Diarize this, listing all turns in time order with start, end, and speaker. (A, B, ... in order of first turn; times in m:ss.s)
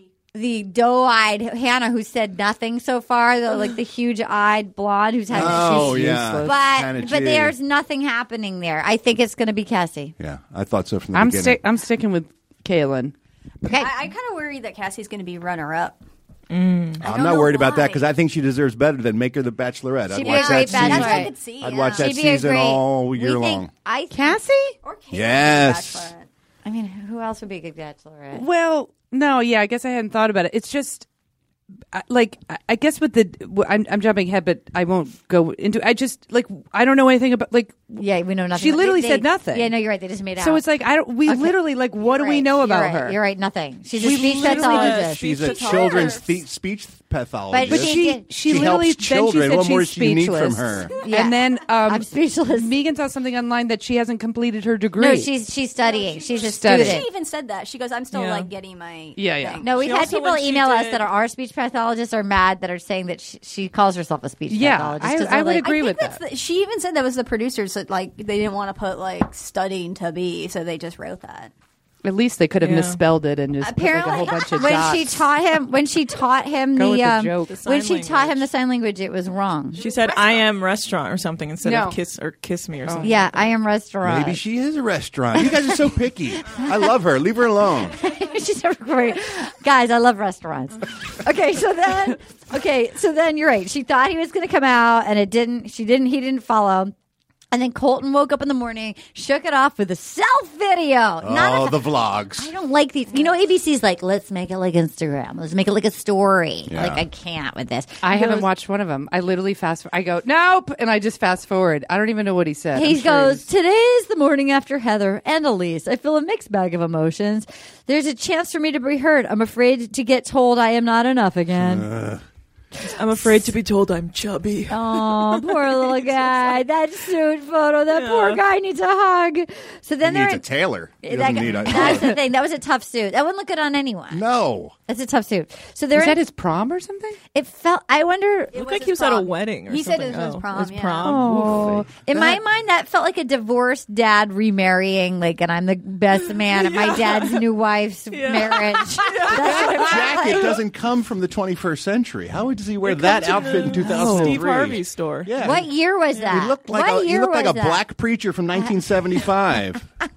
0:00.3-0:10.2 A
0:05.3-0:06.6 B
0:05.3-0:07.5 C
0:10.2-0:11.6 C
0:11.1-0:13.1 B
0:13.6-0:14.0 A
0:13.7-0:16.0 D
0:16.5-0:17.0 E
0:17.0-0:18.1 D
0:17.0-0:23.7 C
0:20.1-0:21.4 A
0:20.2-0:22.2 D
0:21.9-0:24.4 A
0:24.1-0:24.8 B
0:24.8-0:26.3 D
0:25.1-0:26.1 C
0:26.6-0:28.4 A
0:28.3-0:31.1 B
0:31.9-0:38.0 B
0:38.0-0:40.6 A
0:38.6-0:39.7 B
0:40.4-0:43.2 B
0:41.3-0:45.5 A
0:44.0-0:45.1 B
0:44.0-0:46.3 E
0:45.1-0:50.9 C
0:45.4-0:46.2 D
0:47.5-0:48.3 A
0:47.7-0:55.3 B
0:51.0-0:52.7 A
0:55.0-0:57.1 A
0:55.8-0:59.9 D
0:56.4-0:57.0 B
0:58.1-0:58.5 E
0:59.2-0:59.6 B
0:59.6-1:05.7 A
0:59.7-1:01.1 E
1:04.5-1:06.2 B
1:05.6-1:11.5 D
1:12.0-1:15.1 B
1:12.6-1:13.0 E
1:13.6-1:19.8 A
1:16.8-1:17.5 B
1:17.5-1:18.5 E
1:19.8-1:23.5 E
1:19.8-1:20.4 D
1:21.6-1:22.0 B
1:22.9-1:23.2 B
1:23.0-1:24.4 A
1:24.0-1:28.0 C
1:25.4-1:25.8 A
1:26.5-1:27.0 A
1:27.9-1:36.9 A
1:37.5-1:48.5 A
1:41.2-1:42.5 C
1:46.7-1:47.0 C
1:48.0-1:53.4 B
1:52.7-2:01.9 A
2:01.6-2:02.2 C
2:02.8-2:06.1 E
2:03.2-2:03.5 A
2:04.7-2:10.5 A
2:07.9-2:08.4 E
2:10.0-2:12.1 C
2:11.0-2:14.2 A
2:14.1-2:14.7 C
2:14.9-2:16.2 A
2:15.9-2:17.2 B
2:17.3-2:18.6 A
2:18.5-2:21.3 D
2:18.5-2:21.9 E
2:21.0-2:21.9 B
2:21.1-2:30.6 A
2:26.5-2:27.4 E
2:28.1-2:30.3 E
2:29.3-2:35.7 C
2:32.8-2:35.3 E
2:33.7-2:34.4 B
2:35.4-2:37.8 A
2:36.2-2:39.8 C